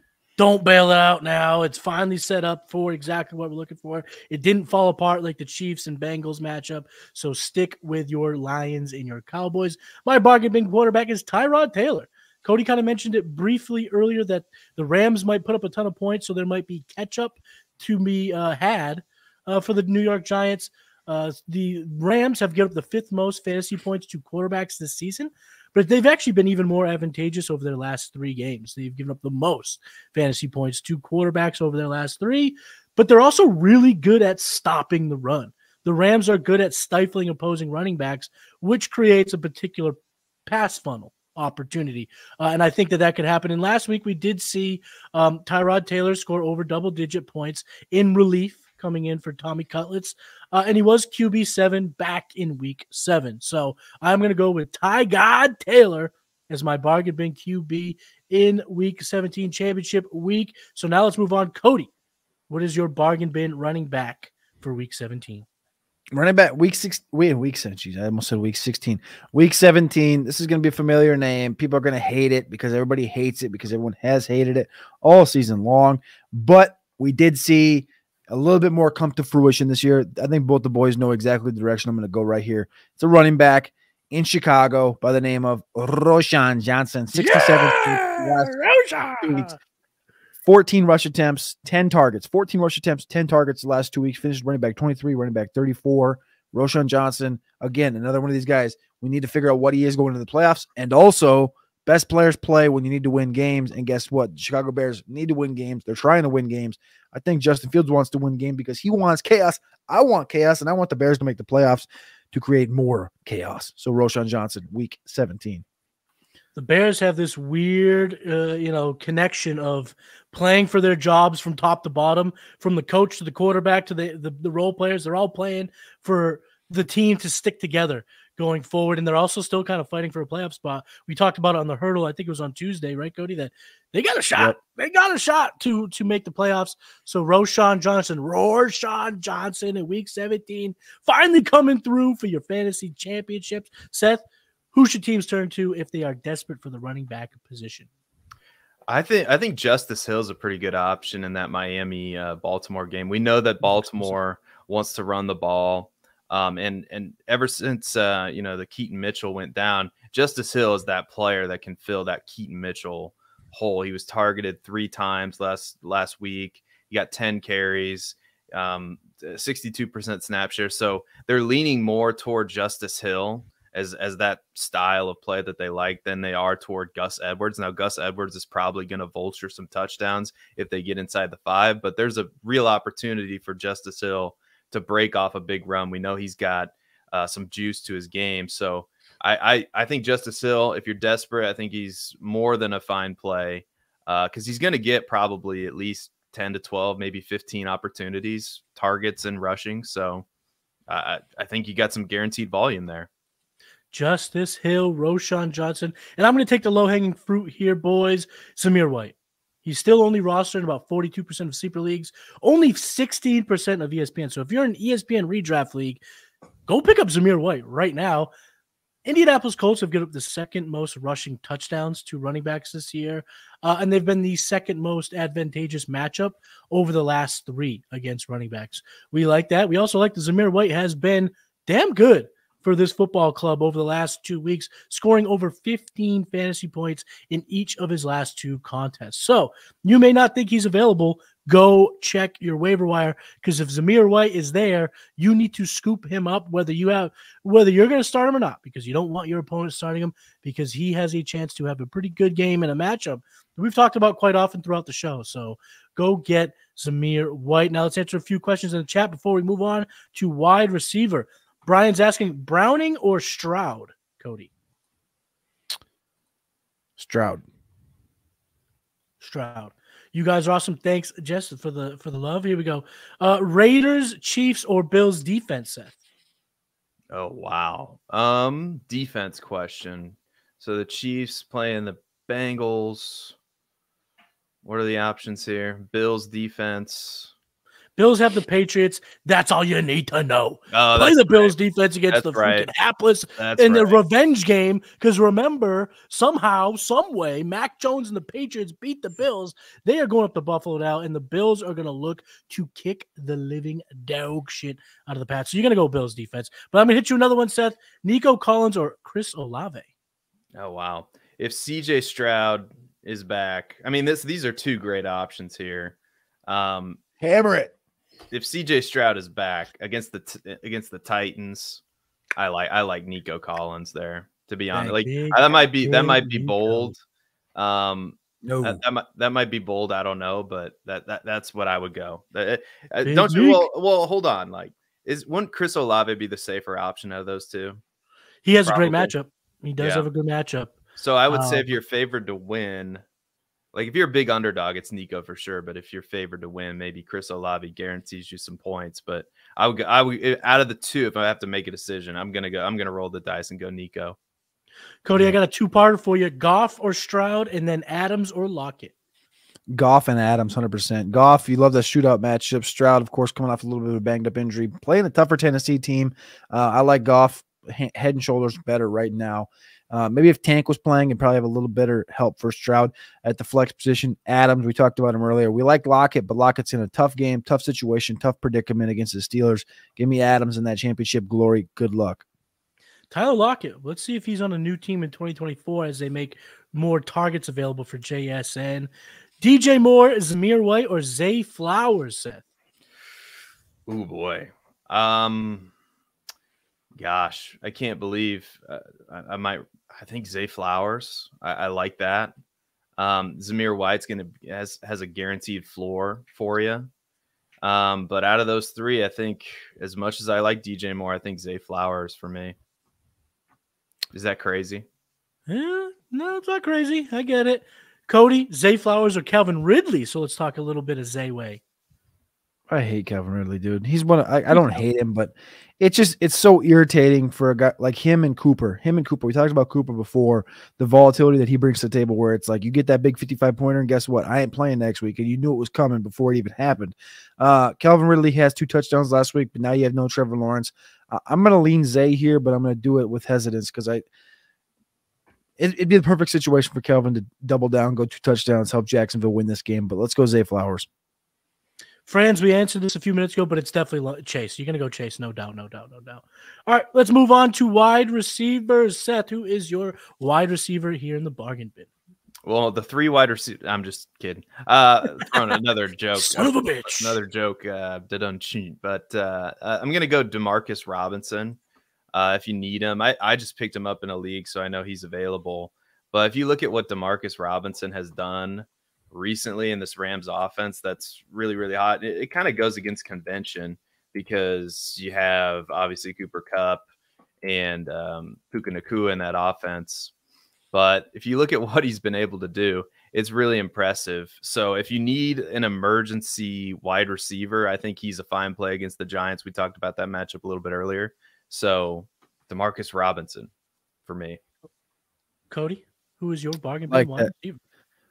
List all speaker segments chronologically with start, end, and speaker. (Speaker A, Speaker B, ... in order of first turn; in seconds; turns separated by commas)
Speaker A: 0.4-61.9, Speaker A: 62.5-65.5, Speaker B: 66.1-88.6, Speaker A: 87.2-89.6, Speaker B: 89.2-89.5, Speaker B: 90.4-115.6, Speaker A: 116.5-147.9, Speaker C: 148.9-200.2, Speaker A: 153.7-154.1, Speaker C: 200.9-203.1, Speaker A: 203.9-216.0, Speaker A: 216.7-218.3, Speaker A: 219.1-264.5, Speaker B: 267.0-267.4, Speaker A: 269.2-276.0, Speaker C: 277.1-283.4, Speaker C: 284.6-287.3, Speaker A: 288.0-309.9, Speaker C: 290.7-291.6, Speaker C: 292.1-292.7, Speaker C: 293.4-294.0, Speaker C: 310.5-317.0, Speaker B: 317.2-317.7, Speaker C: 318.3-321.8, Speaker C: 322.4-327.0, Speaker A: 324.7-326.6, Speaker B: 325.9-326.8, Speaker C: 327.6-337.8, Speaker B: 328.4-328.8, Speaker A: 333.0-333.7, Speaker A: 338.4-340.8, Speaker C: 338.7-339.1, Speaker C: 339.8-340.1, Speaker C: 341.0-343.0, Speaker A: 341.3-341.7, Speaker C: 343.7-354.2, Speaker A: 355.0-358.9, Speaker B: 359.7-382.2, Speaker A: 383.1-388.9, Speaker A: 389.4-392.4, Speaker C: 393.9-395.7, Speaker C: 397.0-402.3, Speaker C: 403.0-406.9, Speaker C: 407.6-412.6, Speaker C: 414.1-414.9, Speaker A: 415.5-421.6, Speaker B: 422.7-444.1, Speaker A: 424.5-424.8, Speaker B: 445.6-450.9, Speaker A: 452.1-461.9, Speaker C: 462.4-471.6, Speaker A: 466.2-467.2, Speaker C: 472.1-486.8, Speaker C: 487.4-490.1, Speaker C: 490.7-503.5, Speaker C: 504.1-504.4, Speaker A: 505.5-507.6, Speaker B: 506.9-507.3